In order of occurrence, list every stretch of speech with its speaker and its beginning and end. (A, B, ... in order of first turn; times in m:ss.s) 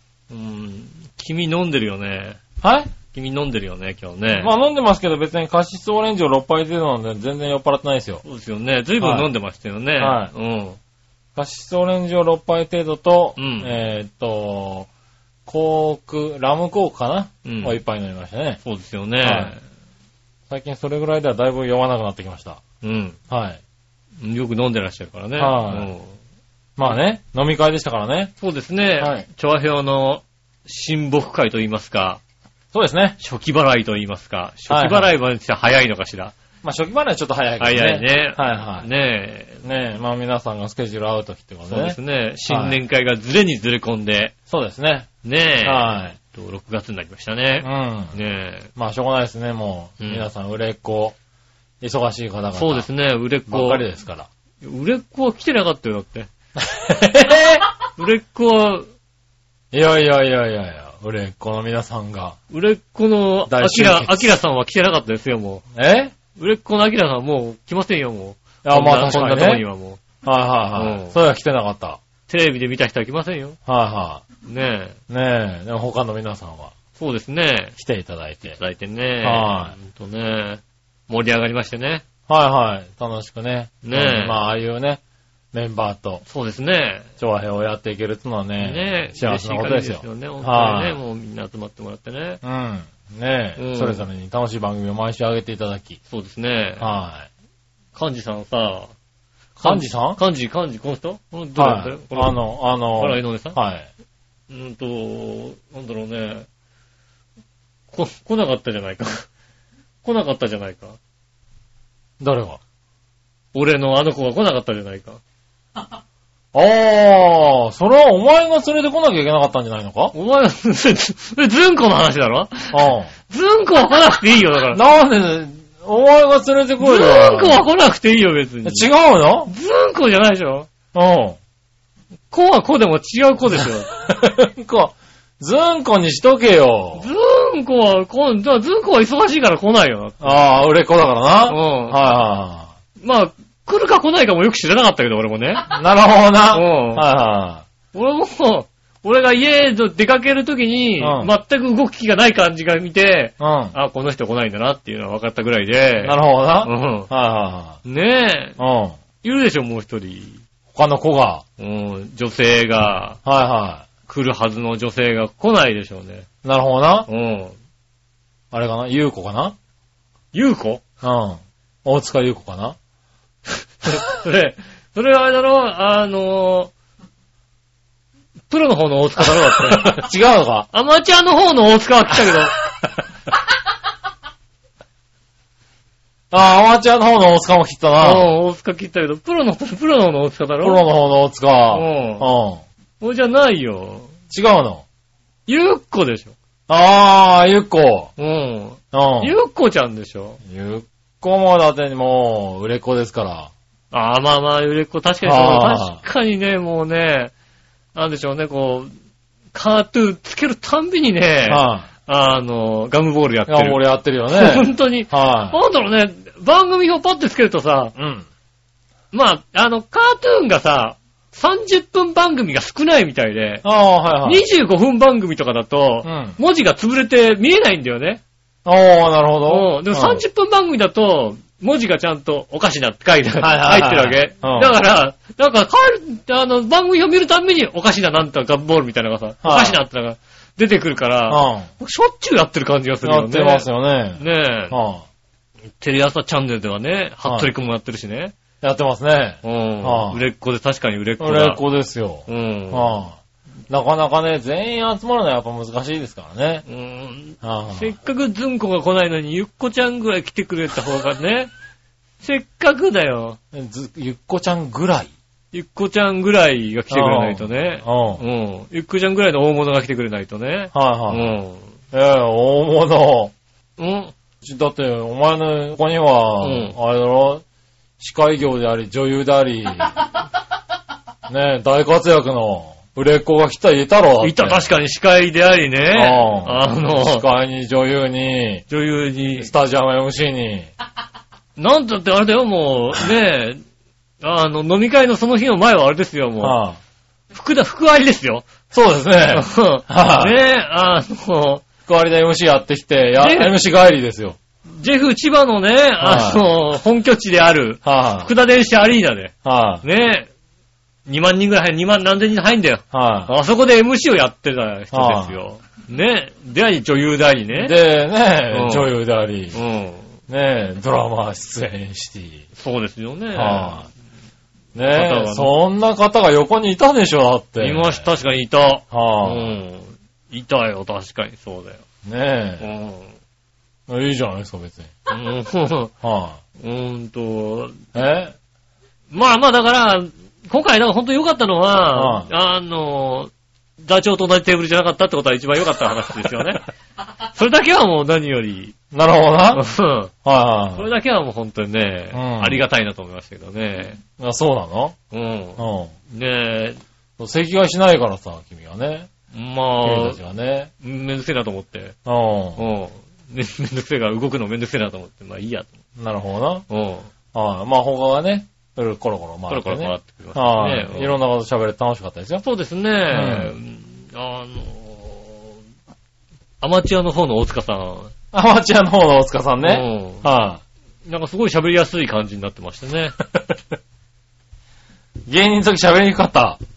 0:00.3-0:02.4 A
0:02.6-0:02.9 B
0:03.1-0:04.5 A
0:04.4-0:08.2 B
0:08.2-0:10.8 A
0:09.0-0:09.3 B
0:10.0-0:10.3 B
0:11.4-0:14.9 B
0:13.4-0:13.7 A
0:15.4-0:18.6 B
0:17.4-0:17.8 A
0:18.6-0:19.6 A
0:19.2-0:19.5 B
0:20.5-0:22.6 B
0:22.8-0:23.2 A
0:23.3-0:23.6 B
0:24.2-0:26.2 A
0:25.4-0:25.9 B
0:26.8-0:28.3 B
0:28.4-0:32.2 A
0:29.0-0:29.2 B
0:32.7-0:33.2 B
0:33.2-0:36.3 A
0:34.7-0:35.1 B
0:36.6-0:38.9 B
0:37.6-0:39.6 A
0:39.6-0:42.8 B
0:41.7-0:44.3 A
0:44.5-0:45.1 B
0:45.2-0:48.7 A
0:45.6-0:46.2 B
0:47.6-0:48.1 B
0:48.8-0:51.2 B
0:50.0-0:50.3 A
0:51.8-0:52.9 B
0:52.5-0:53.8 A
0:53.5-0:54.3 B
0:54.6-0:56.3 A
0:56.6-0:57.6 B
0:58.0-0:58.9 A
0:59.7-1:02.4 B
1:02.5-1:05.6 A
1:03.5-1:04.4 B
1:05.7-1:06.1 B
1:06.4-1:10.0 A
1:08.6-1:09.6 B
1:10.2-1:12.0 B
1:10.8-1:11.1 A
1:12.3-1:13.6 A
1:13.6-1:14.2 B
1:14.4-1:15.0 A
1:15.1-1:16.7 B
1:17.0-1:17.8 A
1:17.8-1:18.6 B
1:18.5-1:22.0 A
1:19.2-1:19.7 B
1:22.3-1:25.0 B
1:23.8-1:24.4 A
1:25.5-1:26.2 B
1:26.2-1:27.1 A
1:27.2-1:31.0 B
1:28.6-1:32.4 A
1:32.4-1:36.0 B
1:33.6-1:34.0 A
1:36.1-1:36.9 A
1:36.8-1:37.3 B
1:37.9-1:38.9 A
1:39.6-1:40.2 B
1:39.6-1:42.3 A
1:41.6-1:43.9 B
1:43.0-1:43.6 A
1:44.5-1:46.5 A
1:47.9-1:49.3 A
1:50.0-1:51.0 A
1:52.2-1:52.6 B
1:53.5-1:55.2 A
1:56.5-2:00.1 B
2:00.1-2:04.8 A
2:02.7-2:03.1 B
2:04.7-2:07.6 B
2:06.8-2:08.9 A
2:08.6-2:09.5 B
2:09.5-2:10.7 A
2:10.9-2:11.4 B
2:12.3-2:13.9 A
2:13.6-2:17.1 B
2:17.0-2:20.4 A
2:20.2-2:22.7 B
2:21.5-2:22.0 A
2:23.0-2:25.7 A
2:25.7-2:27.6 B
2:26.5-2:27.0 A
2:27.9-2:37.1 A
2:31.0-2:31.3 B
2:33.4-2:33.8 B
2:36.0-2:37.8 B
2:37.8-2:38.6 A
2:38.6-2:39.0 B
2:39.2-2:40.4 A
2:40.7-2:41.4 B
2:41.6-2:43.2 A
2:43.2-2:43.9 B
2:44.1-2:46.3 A
2:46.4-2:47.1 B
2:47.1-2:47.5 A
2:48.5-2:49.6 B
2:50.3-2:50.8 A
2:51.0-2:52.8 B
2:53.8-2:56.7 A
2:58.5-3:00.0 A
2:59.5-3:00.7 B
3:00.7-3:02.5 A
3:06.3-3:08.3 B
3:08.0-3:10.8 A
3:10.6-3:12.6 B
3:11.7-3:12.3 A
3:13.0-3:14.1 A
3:14.3-3:14.8 B
3:15.5-3:16.3 A
3:16.7-3:18.1 B
3:18.2-3:20.4 A
3:18.9-3:19.3 B
3:20.4-3:23.5 B
3:23.9-3:27.3 A
3:25.2-3:26.0 B
3:27.9-3:28.9 A
3:29.5-3:37.9 A
3:31.5-3:31.9 B
3:33.5-3:35.6 B
3:38.0-3:38.2 B
3:39.1-3:43.6 A
3:43.6-3:44.4 B
3:44.2-3:48.2 A
3:46.0-3:46.4 B
3:48.6-3:50.2 B
3:49.5-4:04.7 A
3:53.4-3:54.7 B
3:59.4-3:59.8 B
4:01.3-4:01.7 B
4:03.0-4:05.0 B
4:05.8-4:08.3 A
4:07.2-4:07.5 B
4:08.6-4:10.2 B
4:09.4-4:11.6 A
4:11.2-4:13.2 B
4:12.3-4:13.0 A
4:13.7-4:16.6 B
4:16.6-4:21.5 A
4:17.4-4:18.0 B
4:22.2-4:23.4 A
4:23.5-4:25.1 B
4:25.5-4:31.7 A
4:26.9-4:28.2 B
4:30.7-4:31.3 B
4:31.9-4:33.3 B
4:33.8-4:34.1 A
4:34.4-4:37.4 B
4:36.4-4:36.8 A
4:38.0-4:40.0 B
4:41.3-4:44.8 B
4:44.2-4:47.2 A
4:45.9-4:48.6 B
4:48.7-4:49.5 A
4:49.3-4:50.7 B
4:51.6-4:53.6 A
4:54.2-4:56.6 A
4:56.4-4:56.8 B
4:57.3-4:58.4 A
4:58.7-5:00.3 B
4:59.3-5:01.6 A
5:01.9-5:04.4 B
5:03.2-5:03.6 A
5:04.7-5:10.3 A
5:06.0-5:06.4 B
5:07.8-5:08.3 B
5:09.4-5:09.8 B
5:11.1-5:17.7 A
5:12.9-5:13.3 B
5:14.9-5:15.4 B
5:17.5-5:19.6 B
5:18.5-5:18.9 A
5:19.5-5:20.1 A
5:20.3-5:22.4 B
5:22.6-5:23.8 A
5:23.3-5:23.9 B
5:24.7-5:28.0 B
5:24.8-5:25.5 A
5:27.6-5:31.8 A
5:28.9-5:29.6 B
5:32.0-5:32.7 B
5:32.6-5:33.1 A
5:33.9-5:34.9 B
5:35.1-5:35.9 A
5:36.0-5:36.4 B
5:36.6-5:37.9 A
5:37.9-5:38.3 B
5:39.1-5:46.6 A
5:41.9-5:42.3 B
5:47.3-5:48.7 A
5:48.9-5:49.6 B
5:49.5-5:50.1 A
5:50.2-5:50.9 B
5:50.7-5:54.0 A
5:52.1-5:52.6 B
5:54.2-5:55.0 B
5:55.1-5:56.8 A
5:55.6-5:55.9 B
5:57.2-5:59.1 B
5:59.3-6:00.2 A
5:59.8-6:00.7 B
6:00.8-6:02.0 A
6:02.0-6:02.6 B
6:02.6-6:05.7 A
6:06.0-6:06.6 B
6:06.7-6:07.1 A
6:07.3-6:12.4 B
6:09.5-6:11.2 A
6:12.4-6:15.6 A
6:13.1-6:13.5 B
6:16.6-6:18.1 A
6:18.3-6:20.6 B
6:19.6-6:20.2 A
6:21.1-6:23.2 A
6:25.3-6:26.6 B